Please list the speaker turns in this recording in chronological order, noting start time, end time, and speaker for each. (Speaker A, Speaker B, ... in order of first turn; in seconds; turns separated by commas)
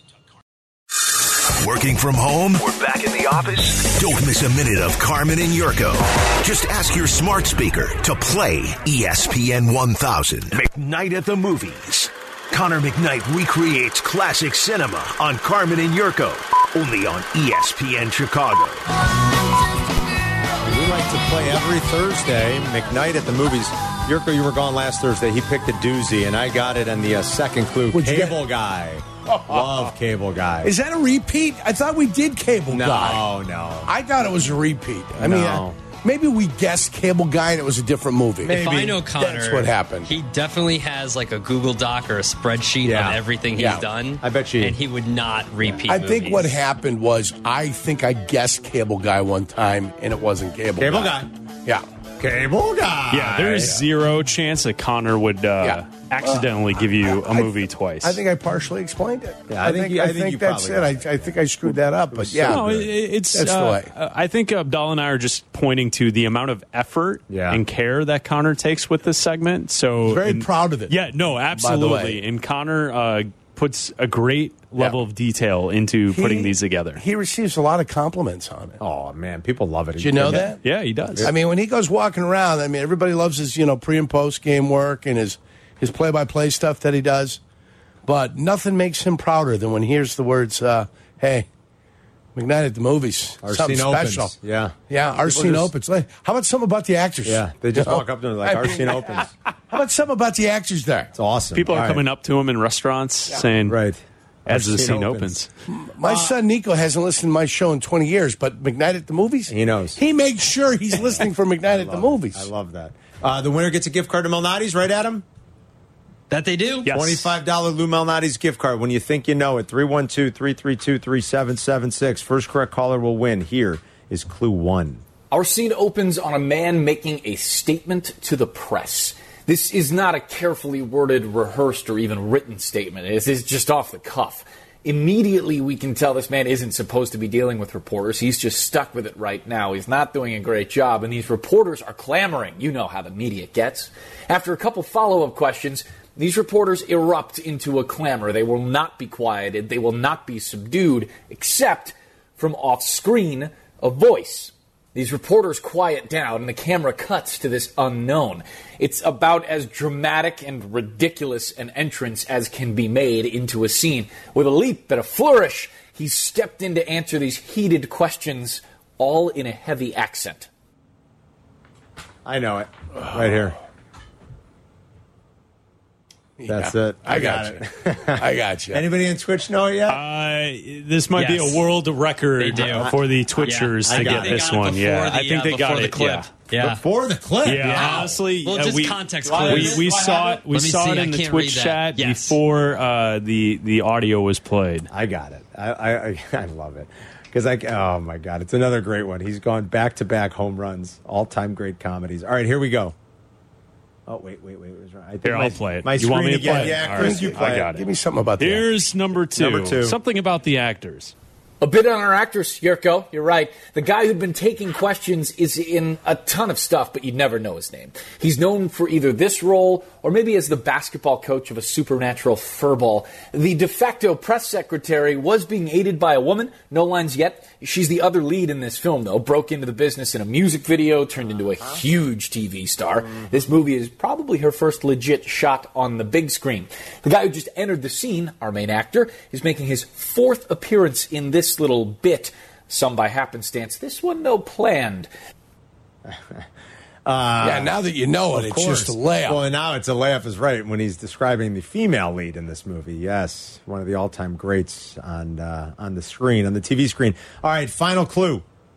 Speaker A: 1.6-18.8, Speaker B: 20.6-30.7, Speaker C: 27.9-28.4, Speaker C: 29.3-29.8, Speaker C: 30.6-33.2, Speaker B: 32.7-33.9, Speaker C: 33.9-40.1, Speaker B: 35.2-35.8, Speaker B: 38.4-39.0, Speaker D: 38.5-46.6, Speaker B: 42.8-44.8, Speaker C: 43.6-43.9, Speaker C: 45.9-51.9, Speaker B: 50.8-51.3, Speaker B: 52.2-53.8, Speaker E: 53.1-58.2, Speaker C: 55.6-62.8, Speaker B: 59.5-62.9, Speaker E: 62.5-77.0, Speaker C: 63.3-63.9, Speaker B: 67.3-67.6, Speaker C: 70.0-70.9, Speaker C: 71.5-72.2, Speaker C: 76.1-78.8, Speaker B: 78.8-80.5, Speaker C: 80.0-80.6, Speaker E: 80.5-81.3, Speaker C: 81.2-87.4, Speaker C: 88.0-91.5, Speaker C: 92.3-94.3, Speaker B: 93.4-95.7, Speaker C: 94.9-101.1, Speaker B: 97.2-99.3, Speaker B: 101.1-102.0, Speaker E: 101.5-103.8, Speaker B: 103.7-105.4, Speaker E: 104.5-105.5, Speaker C: 105.7-112.5, Speaker B: 106.0-106.3, Speaker B: 109.5-110.0, Speaker B: 111.0-115.2, Speaker D: 116.3-116.9, Speaker E: 116.8-117.2, Speaker B: 116.9-125.0, Speaker F: 125.3-170.5, Speaker B: 172.2-173.6, Speaker C: 176.4-177.7, Speaker B: 176.5-180.0, Speaker C: 178.2-178.8, Speaker E: 179.9-186.3, Speaker D: 181.2-181.6, Speaker D: 182.4-186.8, Speaker B: 182.6-182.9, Speaker B: 183.8-184.5, Speaker B: 186.5-188.2, Speaker E: 187.4-194.9, Speaker D: 187.7-192.4, Speaker B: 189.3-190.0, Speaker B: 194.9-202.9, Speaker B: 204.1-207.8, Speaker E: 205.2-207.8, Speaker C: 206.6-208.7, Speaker E: 208.4-211.1, Speaker B: 209.4-210.0, Speaker F: 211.6-245.1, Speaker B: 246.1-246.4, Speaker B: 247.1-247.7, Speaker C: 247.4-249.4, Speaker B: 248.3-258.4